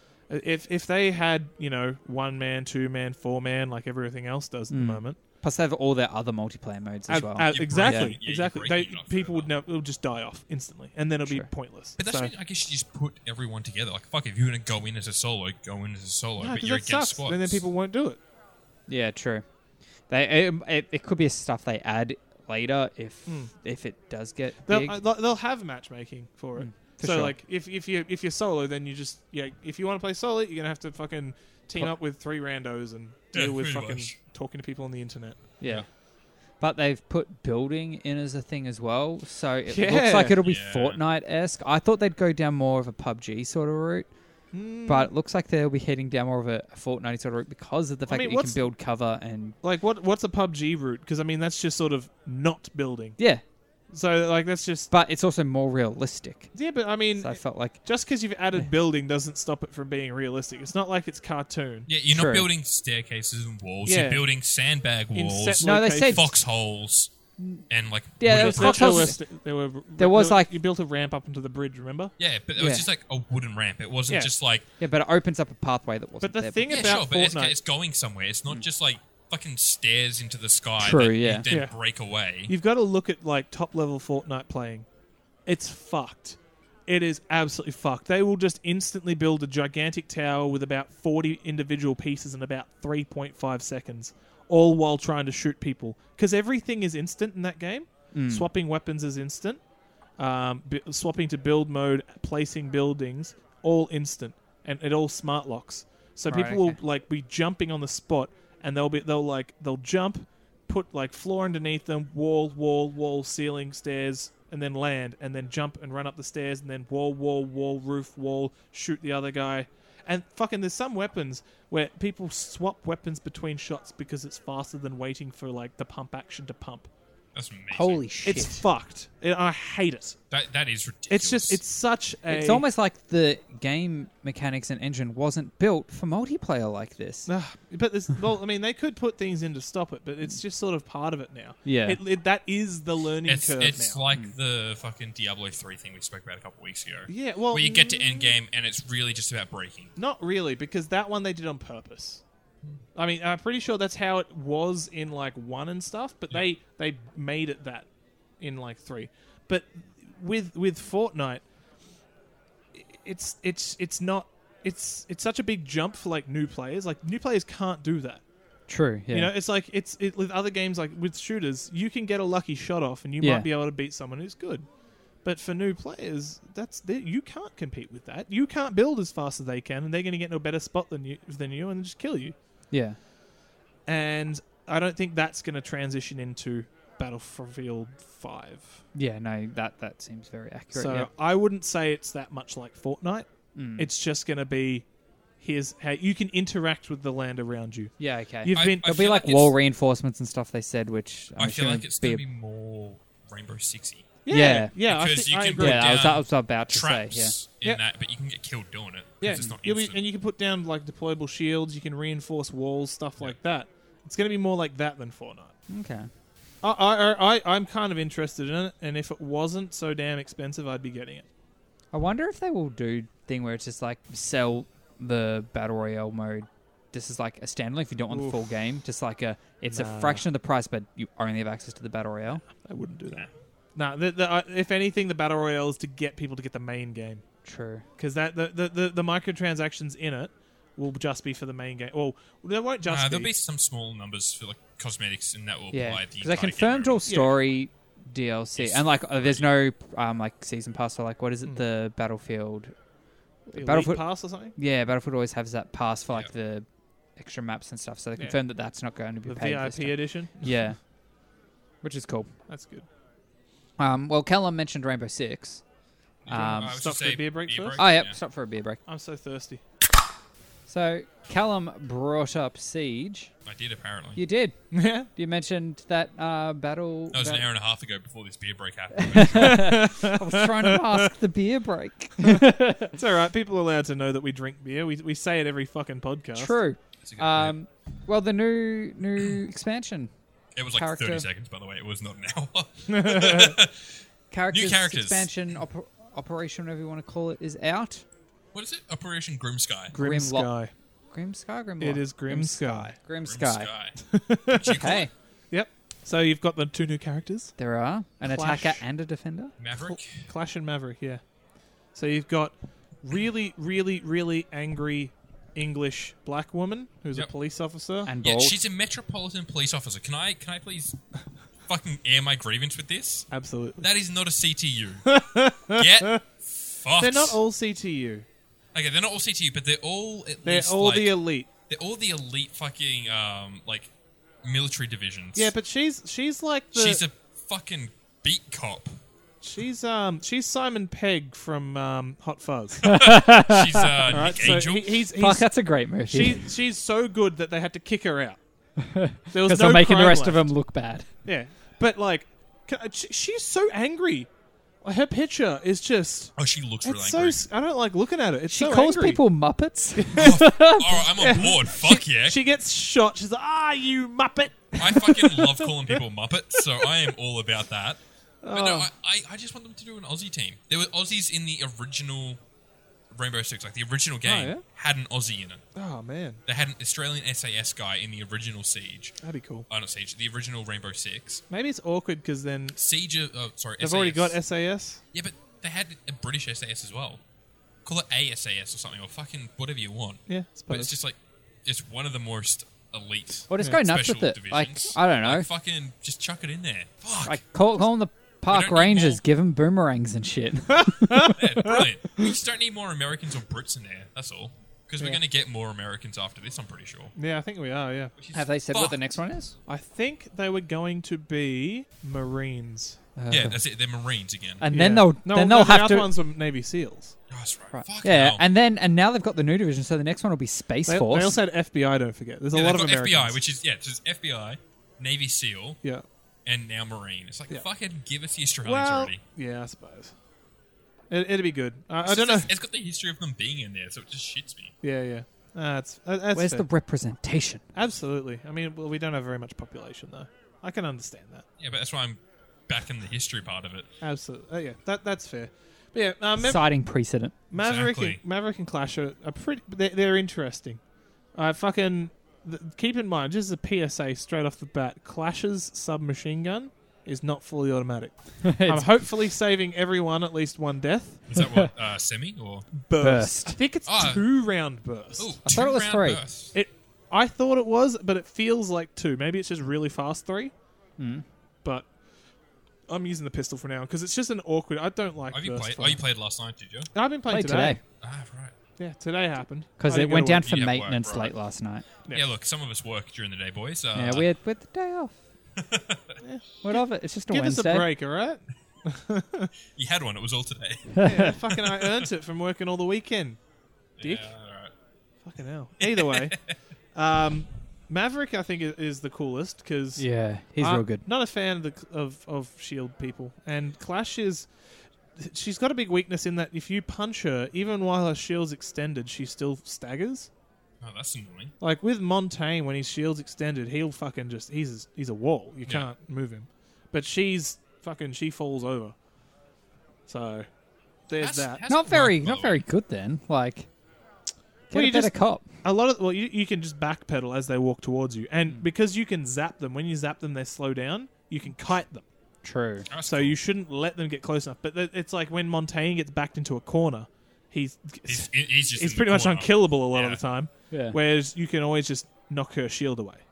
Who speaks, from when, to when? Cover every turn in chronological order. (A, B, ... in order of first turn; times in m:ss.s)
0:00.3-0:05.2 A
0:04.7-0:08.2 B
0:07.1-0:12.3 A
0:07.4-0:09.5 C
0:12.0-0:17.6 C
0:16.4-0:18.2 A
0:18.9-0:19.4 B
0:20.1-0:25.0 B
0:23.3-0:23.5 A
0:24.7-0:35.4 A
0:26.6-0:27.4 B
0:33.3-0:34.2 C
0:35.6-0:36.0 B
0:36.6-0:44.1 B
0:39.7-0:40.4 A
0:40.4-0:41.0 C
0:44.5-0:45.1 A
0:44.8-0:49.6 B
0:48.1-0:48.7 A
0:49.6-0:53.3 A
0:53.9-0:54.9 A
0:54.9-0:57.8 B
0:56.5-1:01.9 A
1:01.9-1:07.1 C
1:02.1-1:02.5 B
1:03.9-1:04.2 A
1:05.1-1:06.3 A
1:05.6-1:06.3 B
1:07.4-1:07.6 B
1:07.7-1:09.1 C
1:08.2-1:09.2 B
1:08.3-1:12.1 A
1:10.0-1:10.5 B
1:12.2-1:14.6 C
1:12.6-1:12.9 B
1:14.8-1:17.0 B
1:16.2-1:17.6 A
1:16.7-1:22.5 C
1:20.8-1:21.5 B
1:21.5-1:21.8 A
1:22.5-1:24.9 A
1:25.5-1:39.6 A
1:38.1-1:38.4 B
1:40.2-2:06.9 A
1:46.3-1:46.8 B
2:07.3-2:08.0 C
2:07.7-2:08.6 B
2:08.2-2:10.2 A
2:10.3-2:11.6 C
2:11.1-2:12.6 A
2:12.3-2:17.3 B
2:17.3-2:24.0 A
2:21.6-2:22.0 B
2:23.3-2:29.9 C
2:27.1-2:28.3 A
2:30.0-2:32.2 A
2:33.0-2:37.9 A
2:38.4-2:41.4 A
2:42.7-2:48.2 A
2:48.7-2:49.3 B
2:49.1-2:54.7 A
2:53.2-2:53.5 B
2:55.2-3:02.4 A
3:02.7-3:03.0 B
3:03.9-3:08.8 A
3:09.0-3:11.1 B
3:10.7-3:14.8 A
3:13.6-3:13.9 B
3:15.4-3:18.9 A
3:18.0-3:22.2 B
3:18.5-3:19.5 C
3:21.4-3:24.2 C
3:24.2-3:26.1 A
3:24.3-3:24.7 B
3:24.7-3:30.0 C
3:25.6-3:27.4 B
3:29.2-3:35.6 A
3:35.7-3:36.1 B
3:36.6-3:41.3 A
3:41.9-3:52.4 B
3:48.1-3:48.4 A
3:49.7-3:50.2 A
3:52.4-3:57.2 A
3:57.4-3:57.8 B
3:58.0-4:03.3 A
4:02.8-4:07.0 C
4:05.7-4:12.7 B
4:07.1-4:07.4 A
4:08.6-4:09.5 C
4:13.4-4:20.8 B
4:13.6-4:14.6 A
4:19.3-4:20.6 A
4:21.8-4:22.3 B
4:22.5-4:22.9 A
4:23.8-4:25.6 B
4:26.2-4:28.2 C
4:26.3-4:26.8 B
4:26.4-4:27.8 A
4:27.8-4:28.8 B
4:28.9-4:29.6 A
4:30.7-4:33.3 B
4:33.4-4:34.2 C
4:34.2-4:37.4 B
4:34.7-4:35.1 A
4:37.1-4:39.9 C
4:39.0-4:42.9 B
4:39.3-4:41.1 A
4:42.2-4:46.6 A
4:46.4-4:50.1 B
4:47.0-4:47.6 C
4:50.6-4:55.3 C
4:50.7-4:51.3 B
4:52.9-4:53.6 A
4:54.3-4:58.0 B
4:58.5-5:00.0 C
4:59.9-5:00.7 A
5:00.0-5:00.6 B
5:01.1-5:03.7 B
5:01.8-5:02.9 A
5:03.2-5:05.1 C
5:04.0-5:05.0 A
5:04.7-5:05.1 B
5:05.5-5:07.5 A
5:07.6-5:09.5 B
5:08.2-5:08.8 A
5:09.6-5:10.3 C
5:09.7-5:11.2 A
5:12.0-5:18.1 A
5:18.1-5:18.6 B
5:18.2-5:21.0 C
5:21.7-5:23.3 C
5:23.3-5:23.9 A
5:23.8-5:25.1 C
5:25.1-5:26.2 A
5:25.7-5:27.4 C
5:27.0-5:28.3 A
5:28.7-5:33.9 C
5:30.4-5:31.5 A
5:34.4-5:35.5 C
5:35.4-5:37.0 A
5:36.7-5:39.0 C
5:39.4-5:42.9 A
5:42.8-5:45.0 C
5:42.8-5:44.2 B
5:44.1-5:45.5 A
5:45.2-5:46.4 B
5:46.1-5:48.4 A
5:48.8-5:51.1 B
5:49.3-5:50.5 A
5:51.2-5:54.3 A
5:54.8-5:59.2 A
5:56.4-5:57.5 C
5:58.5-6:01.0 B
6:00.0-6:00.4 A
6:00.2-6:02.4 C
6:01.2-6:06.0 A
6:04.8-6:12.4 C
6:06.6-6:06.9 A
6:08.4-6:08.9 A
6:13.1-6:15.6 C
6:14.2-6:14.6 A
6:15.8-6:16.4 A
6:16.4-6:19.2 C
6:19.2-6:19.7 A
6:19.7-6:21.4 C
6:21.5-6:22.8 A
6:22.7-6:24.4 C
6:23.8-6:25.0 A
6:25.1-6:27.2 C
6:27.8-6:37.4 C
6:30.3-6:30.9 A
6:33.5-6:35.5 B
6:37.2-6:41.4 B
6:38.5-6:39.2 C
6:40.8-6:41.8 A
6:41.3-6:47.1 C
6:47.2-6:48.1 A
6:48.2-6:49.0 C
6:48.3-6:49.6 B
6:49.7-6:53.0 A
6:53.2-6:53.6 B
6:53.3-6:54.6 C
6:54.6-6:56.1 B
6:54.7-6:57.2 A
6:57.3-6:58.4 C
6:57.7-7:01.4 B
7:00.9-7:03.4 A
7:02.5-7:05.8 C
7:06.4-7:09.2 C
7:08.6-7:10.1 A
7:11.1-7:12.5 A
7:12.0-7:14.7 C
7:14.8-7:16.6 A
7:16.3-7:17.6 B
7:17.7-7:21.4 A
7:21.6-7:23.9 C
7:24.0-7:26.6 A
7:26.4-7:27.4 B
7:27.5-7:30.8 A
7:27.6-7:28.2 C
7:31.4-7:41.3 A
7:38.4-7:38.9 B
7:41.3-7:42.7 C
7:41.4-7:41.7 B
7:42.8-7:45.4 A
7:43.0-7:43.6 B
7:43.9-7:44.2 C
7:45.2-7:46.5 C
7:45.4-7:46.2 B
7:46.5-7:50.5 A
7:51.0-7:51.2 B
7:52.9-7:56.0 A
7:55.3-7:56.9 C
7:56.9-7:57.8 A
7:57.3-7:57.8 B
7:58.0-7:58.6 C
7:58.8-8:00.5 A
7:59.8-8:01.9 B
8:00.4-8:01.4 C
8:02.1-8:04.3 C
8:04.0-8:05.2 B
8:05.6-8:06.2 C
8:06.2-8:09.5 A
8:06.6-8:07.9 B
8:09.7-8:12.1 C
8:11.0-8:11.3 B
8:11.0-8:13.4 A
8:14.0-8:14.7 C
8:14.0-8:14.3 A
8:15.2-8:16.4 A
8:15.8-8:16.6 C
8:17.0-8:24.5 A
8:20.0-8:21.0 B
8:25.1-8:30.3 A
8:30.8-8:31.5 C
8:31.6-8:39.0 A
8:40.1-8:40.4 A
8:41.1-8:41.6 A
8:41.2-8:42.6 C
8:41.7-8:43.7 B
8:44.7-8:45.4 B
8:44.7-8:52.0 A
8:52.4-8:52.9 B
8:52.9-8:53.4 C
8:53.1-9:03.2 A
8:58.1-9:00.2 C
9:00.7-9:01.0 B